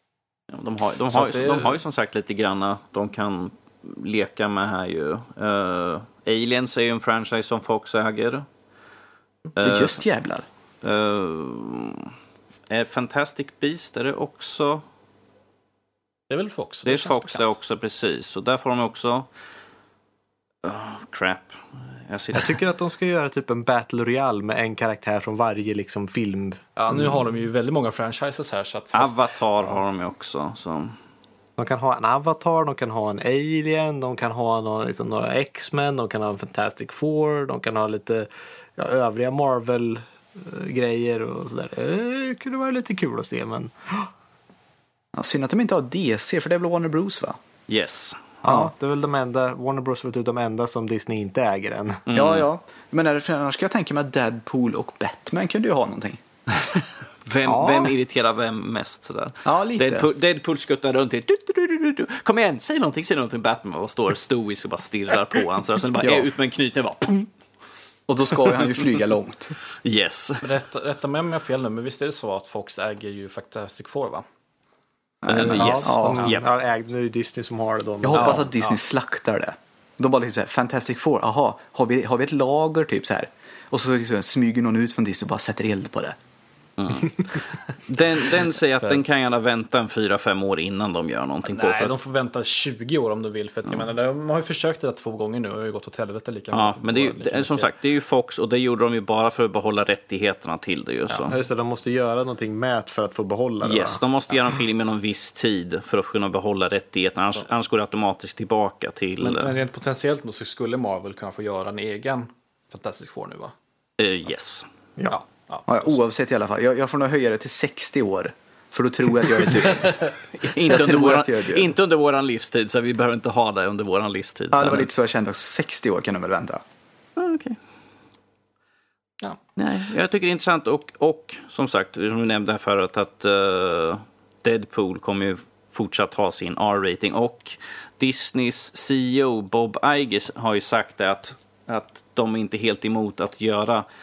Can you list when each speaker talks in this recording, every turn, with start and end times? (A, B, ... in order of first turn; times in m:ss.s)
0:00.5-0:08.4 A
0:01.1-0:01.8 B
0:09.6-0:10.0 A
0:09.6-0:10.4 C
0:10.8-0:12.1 A
0:12.7-0:14.8 A
0:16.3-0:17.5 B
0:16.8-0:19.3 A
0:20.6-0:22.6 A
0:22.3-0:27.1 D
0:26.8-0:29.8 B
0:28.9-0:31.0 A
0:31.6-0:44.1 D
0:45.1-0:47.4 C
0:47.7-0:48.2 A
0:48.4-0:52.0 D
0:48.4-0:48.7 C
0:52.1-0:52.5 A
0:52.1-0:56.2 C
0:57.2-1:07.3 A
0:57.4-0:57.9 C
0:59.4-1:00.0 C
1:06.0-1:06.3 C
1:08.1-1:09.6 C
1:09.8-1:10.5 A
1:10.4-1:14.2 B
1:15.2-1:16.3 C
1:15.2-1:16.5 A
1:15.5-1:18.5 D
1:18.0-1:26.2 C
1:18.1-1:18.8 B
1:26.8-1:31.9 A
1:31.4-1:37.7 B
1:36.5-1:41.3 A
1:41.3-1:44.0 D
1:43.6-1:49.5 A
1:49.2-1:53.5 B
1:54.0-1:54.7 A
1:55.1-1:56.0 B
1:55.6-2:01.7 C
2:00.4-2:04.9 A
2:04.5-2:06.6 C
2:07.2-2:07.6 A
2:09.6-2:23.8 A